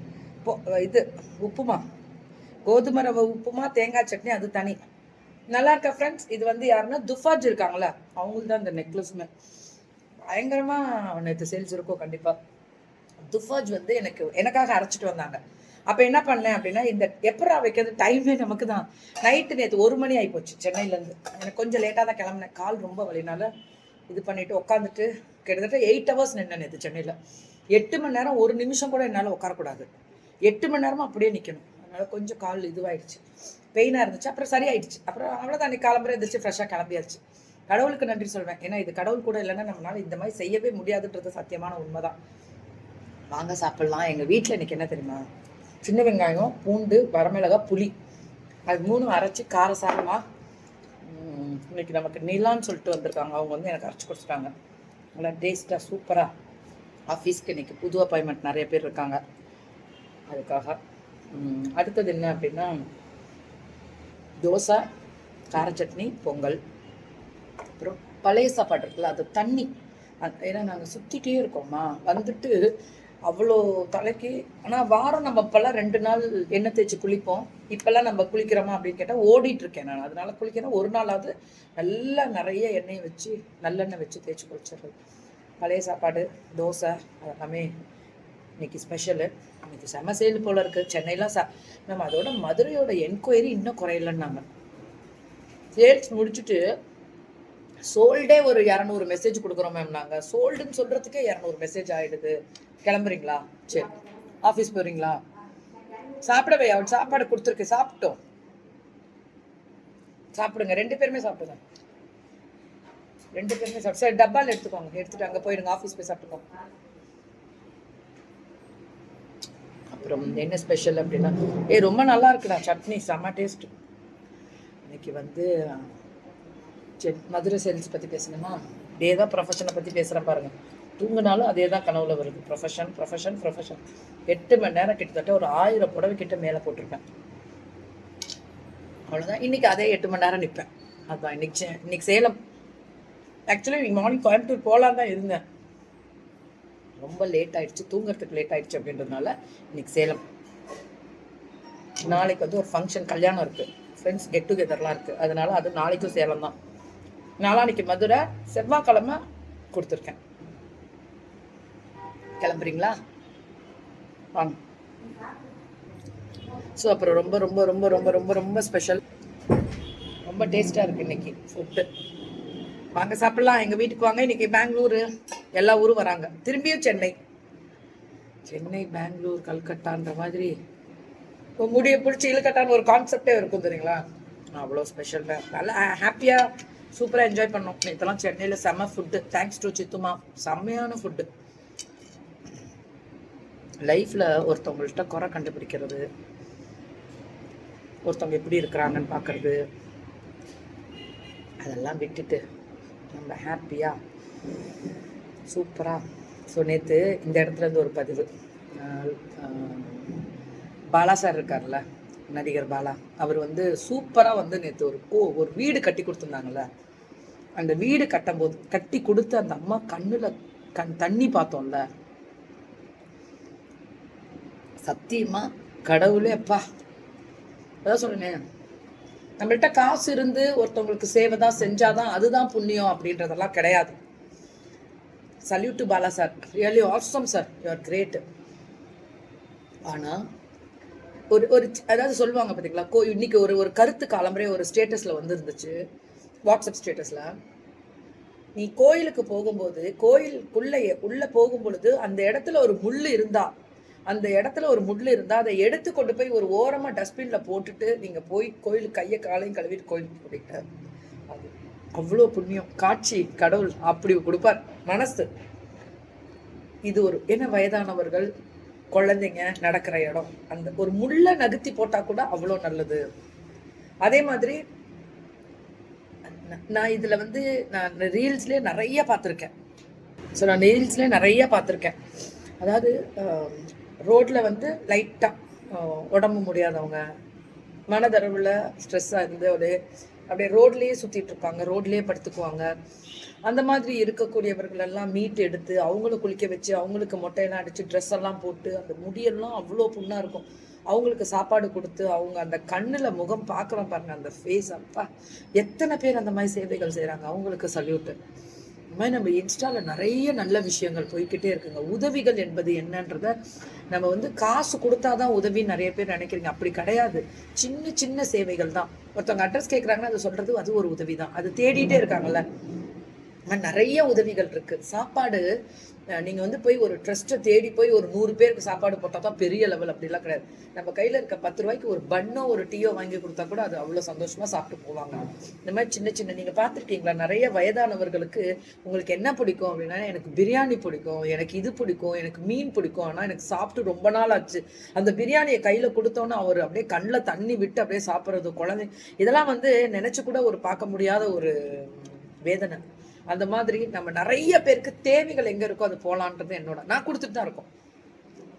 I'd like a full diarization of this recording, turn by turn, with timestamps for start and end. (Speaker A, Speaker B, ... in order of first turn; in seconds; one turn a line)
Speaker A: 0.4-1.8
Speaker A: 2.6-4.8
Speaker A: 5.5-9.3
Speaker A: 10.3-12.3
Speaker A: 13.3-23.5
Speaker A: 24.1-27.1
Speaker A: 27.7-29.9
Speaker A: 30.4-33.2
Speaker A: 33.7-42.2
Speaker A: 43.3-45.2
Speaker A: 45.8-47.9
Speaker A: 48.7-50.2
Speaker A: 51.0-54.5
Speaker A: 55.1-56.3
Speaker A: 57.1-59.2
Speaker A: 60.3-60.8
Speaker A: 61.3-62.8
Speaker A: 64.4-64.8
Speaker A: 65.5-66.6
Speaker A: 67.8-69.7
Speaker A: 70.2-72.7
Speaker A: 73.2-84.9
Speaker A: 85.6-87.7
Speaker A: 88.6-94.4
Speaker A: 95.8-96.6
Speaker A: 97.9-105.2
Speaker A: 106.2-108.2
Speaker A: 110.3-111.6
Speaker A: 113.3-116.5
Speaker A: 119.9-123.7
Speaker A: 124.9-125.9
Speaker A: 127.0-137.0
Speaker A: 139.1-142.3
Speaker A: 143.5-145.4
Speaker A: 147.0-150.2
Speaker A: 152.0-156.5
Speaker A: 157.4-159.2
Speaker A: 159.7-160.2
Speaker A: 162.4-162.9
Speaker A: 166.7-169.0
Speaker A: 170.2-171.9
Speaker A: 172.9-177.1
Speaker A: 178.4-180.5
Speaker A: 181.6-184.0
Speaker A: 184.5-191.3
Speaker A: 193.8-196.1
Speaker A: 198.0-199.6
Speaker A: 201.6-202.4
Speaker A: 203.1-204.0
Speaker A: 205.5-206.0
Speaker A: 206.5-210.2
Speaker A: 210.9-216.7
Speaker A: 217.6-221.8
Speaker A: 224.8-226.6
Speaker A: 227.8-228.4
Speaker A: 229.4-233.9
Speaker A: 235.4-238.2
Speaker A: 239.9-240.2
Speaker A: 241.3-245.8
Speaker A: 246.5-247.3
Speaker A: 248.6-253.5
Speaker A: 254.1-260.6
Speaker A: 261.3-265.3
Speaker A: 266.9-268.3
Speaker A: 268.9-273.0
Speaker A: 274.0-274.6
Speaker A: 276.4-279.5
Speaker A: 280.4-281.9
Speaker A: 282.6-287.0
Speaker A: 287.9-289.8
Speaker A: 290.3-292.7
Speaker A: 293.4-308.1
Speaker A: 308.9-313.3
Speaker A: 313.9-322.4
Speaker A: 323.5-325.4
Speaker A: 326.1-357.7